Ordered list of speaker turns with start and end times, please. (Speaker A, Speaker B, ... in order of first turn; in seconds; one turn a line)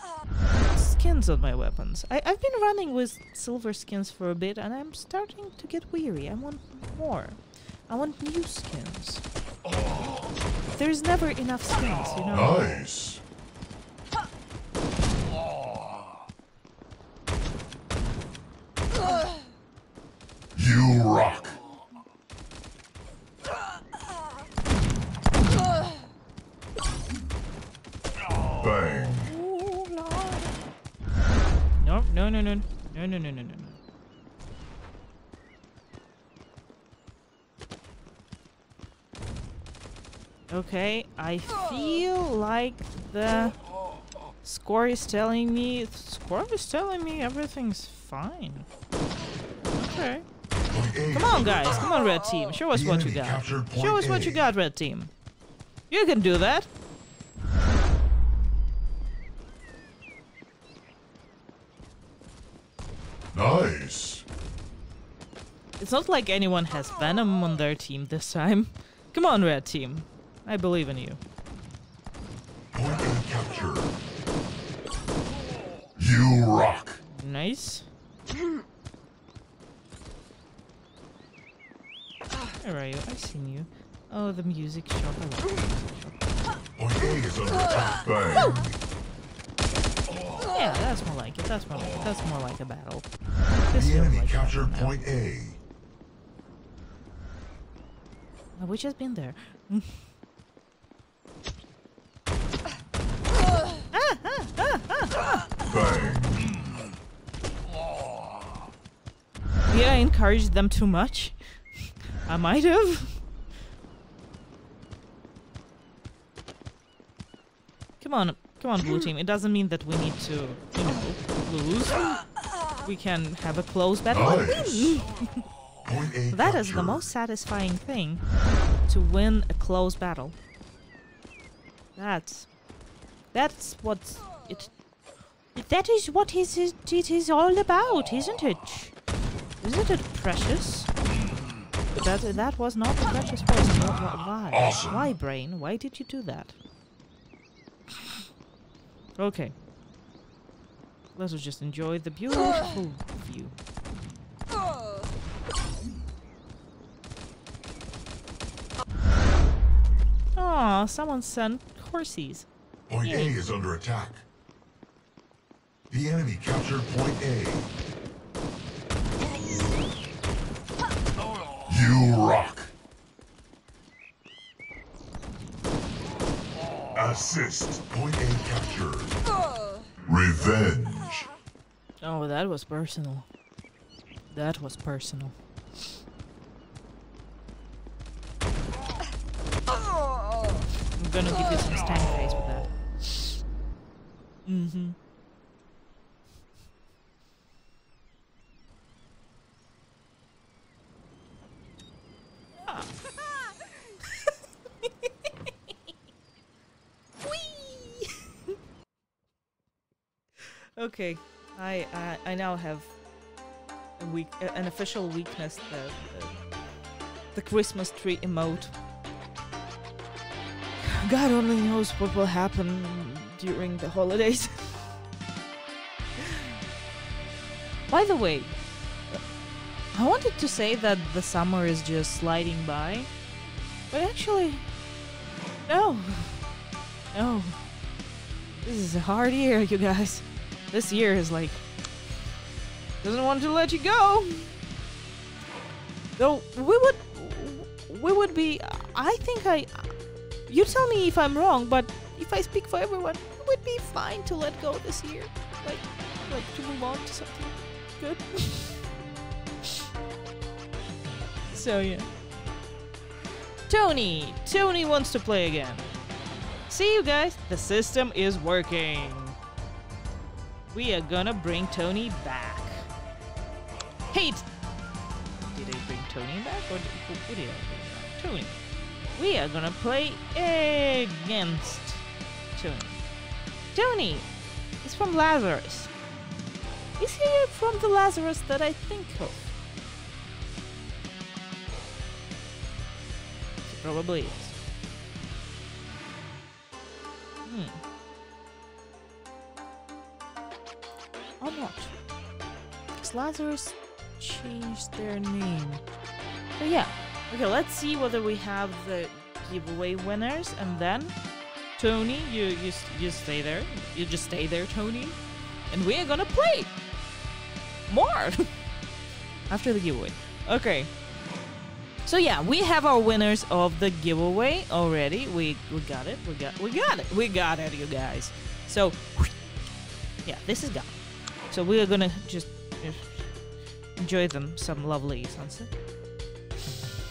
Speaker A: 0.7-9.2
Speaker A: 10.7-12.8
Speaker B: 12.3-13.2
Speaker B: 20.6-21.6
Speaker B: 28.6-29.3
Speaker A: 29.2-30.5
Speaker A: 31.8-33.8
Speaker A: 40.5-43.6
Speaker A: 44.4-48.7
Speaker A: 49.8-50.2
Speaker B: 50.7-52.0
Speaker A: 51.1-55.1
Speaker B: 52.7-54.5
Speaker A: 55.9-56.7
Speaker B: 63.3-64.2
Speaker A: 65.8-71.2
Speaker B: 72.7-74.0
Speaker B: 76.0-77.0
Speaker A: 77.1-77.9
Speaker A: 82.6-86.2
Speaker B: 86.8-88.7
Speaker A: 88.3-88.7
Speaker A: 90.5-95.0
Speaker B: 93.7-95.6
Speaker A: 98.6-100.0
Speaker A: 103.9-105.4
Speaker B: 105.7-106.7
Speaker A: 109.7-111.4
Speaker A: 112.3-113.2
Speaker A: 118.0-122.0
Speaker A: 122.8-125.4
Speaker B: 124.1-125.1
Speaker B: 125.8-127.0
Speaker A: 126.3-128.2
Speaker A: 128.9-130.4
Speaker A: 131.9-132.5
Speaker A: 133.3-134.7
Speaker A: 135.6-138.9
Speaker A: 139.6-140.9
Speaker A: 141.9-146.6
Speaker B: 144.5-145.1
Speaker A: 149.2-149.6
Speaker A: 151.2-153.6
Speaker A: 160.4-162.5
Speaker B: 162.9-164.2
Speaker A: 163.1-163.4
Speaker B: 165.9-167.7
Speaker B: 171.7-172.7
Speaker B: 176.9-179.2
Speaker B: 180.0-181.3
Speaker A: 182.0-183.3
Speaker A: 184.3-185.4
Speaker A: 190.9-193.3
Speaker A: 194.4-194.9
Speaker A: 204.8-205.5
Speaker A: 207.2-208.2
Speaker A: 210.8-212.9
Speaker A: 214.0-216.4
Speaker A: 217.3-218.7
Speaker A: 220.8-224.8
Speaker A: 226.2-226.5
Speaker A: 227.9-228.5
Speaker A: 229.9-233.1
Speaker A: 233.9-234.6
Speaker A: 235.7-236.4
Speaker A: 237.1-237.6
Speaker A: 238.6-241.6
Speaker A: 243.0-244.5
Speaker A: 246.2-249.9
Speaker A: 250.5-258.8
Speaker A: 261.5-262.1
Speaker A: 263.7-265.9
Speaker A: 266.7-269.4
Speaker A: 270.7-272.9
Speaker A: 274.1-274.5
Speaker A: 275.5-278.6
Speaker A: 279.1-283.0
Speaker A: 283.7-284.3
Speaker A: 284.8-285.9
Speaker A: 287.0-289.4
Speaker A: 293.7-294.5
Speaker A: 297.5-297.8
Speaker A: 301.4-301.9
Speaker A: 303.0-305.8
Speaker A: 306.6-311.1
Speaker A: 311.8-315.2
Speaker A: 315.7-316.7
Speaker A: 317.9-318.5
Speaker A: 319.5-320.9
Speaker A: 322.1-329.3
Speaker A: 330.2-333.3
Speaker A: 334.0-335.7